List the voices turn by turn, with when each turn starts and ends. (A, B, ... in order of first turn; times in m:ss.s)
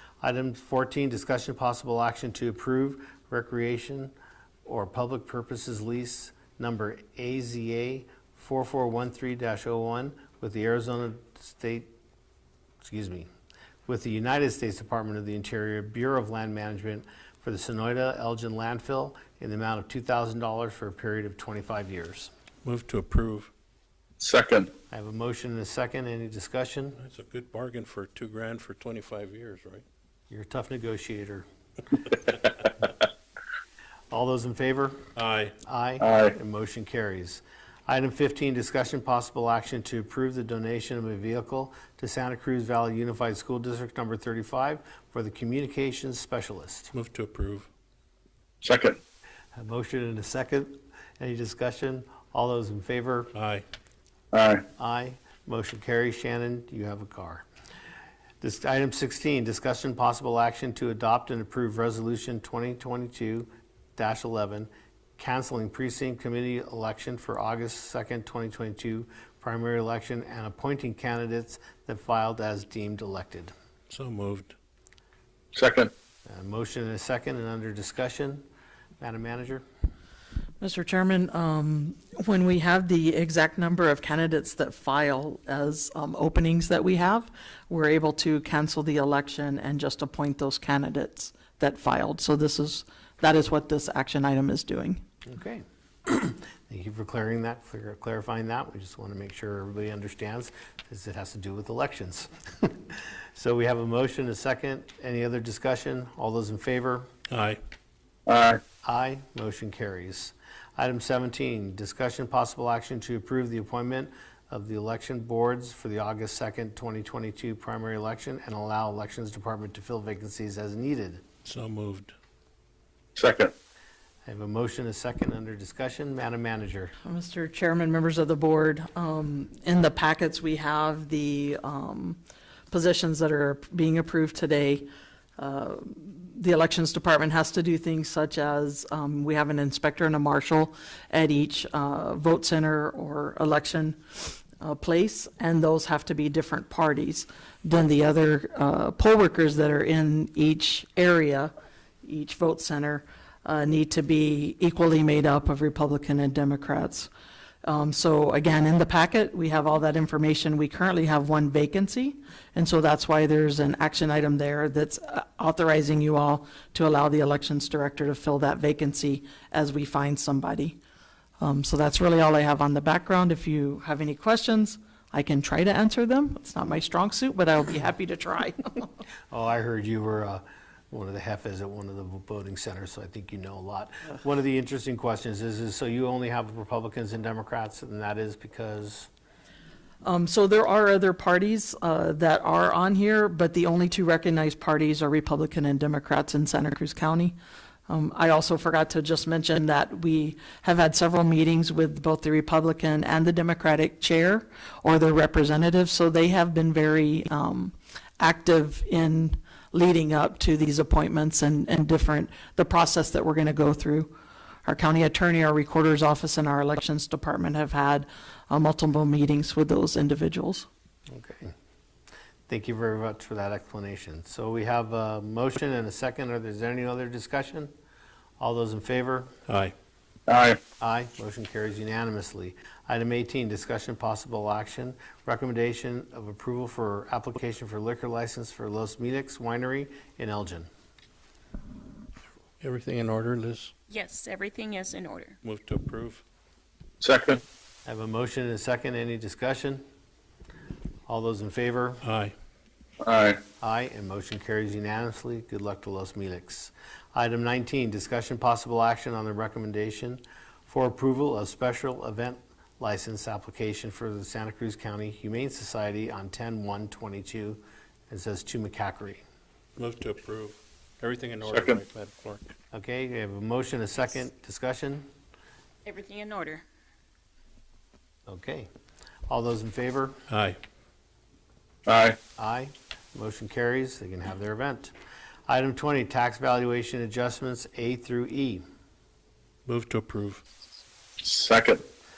0:00.2-0:04.1 A
0:04.6-0:11.9 A
0:12.8-0:13.3 A
0:13.9-0:22.3 A
0:22.6-0:23.5 B
0:24.2-0:24.7 C
0:24.9-0:27.0 A
0:27.0-0:29.8 B
0:30.3-0:31.4 A
0:34.1-0:35.0 A
0:35.1-0:35.6 B
0:35.6-0:46.9 A
0:36.0-0:36.3 C
0:46.9-0:47.7 B
0:48.6-0:49.0 C
0:49.6-0:53.3 A
0:53.3-0:53.6 B
0:54.3-0:54.6 C
0:54.8-0:57.4 A
0:58.4-1:13.5 A
1:13.9-1:14.5 B
1:15.5-1:15.9 C
1:16.2-1:18.4 A
1:19.0-1:19.6 A
1:20.6-1:35.0 D
1:35.2-1:47.1 A
1:47.3-1:47.6 B
1:48.3-1:48.6 C
1:48.8-2:01.2 A
2:01.4-2:02.1 B
2:03.2-2:03.5 C
2:04.2-2:06.9 A
2:07.0-2:31.5 D
2:32.0-2:37.1 D
2:37.6-2:50.8 D
2:51.4-2:58.9 D
2:59.3-3:09.1 A
3:10.0-3:17.3 D
3:17.9-3:34.1 D
3:34.6-3:40.7 D
3:41.1-3:41.5 A
3:42.5-3:47.7 A
3:48.4-3:49.3 A
3:49.5-3:49.7 B
3:50.3-3:50.6 C
3:50.8-4:00.7 A
4:02.6-4:03.7 B
4:03.9-4:05.4 E
4:05.4-4:06.2 B
4:07.0-4:07.4 C
4:07.8-4:09.8 A
4:11.1-4:12.0 A
4:12.0-4:12.3 B
4:13.0-4:13.4 C
4:13.6-4:29.2 A
4:29.8-4:32.5 B
4:31.5-4:31.8 C
4:32.7-4:35.1 A
4:35.8-4:36.6 E
4:38.3-4:38.7 A
4:39.3-4:40.2 A
4:40.3-4:40.6 B
4:41.8-4:42.2 C
4:42.4-4:44.9 A
4:45.5-4:48.6 A
4:49.6-4:50.4 B
4:51.2-4:51.8 C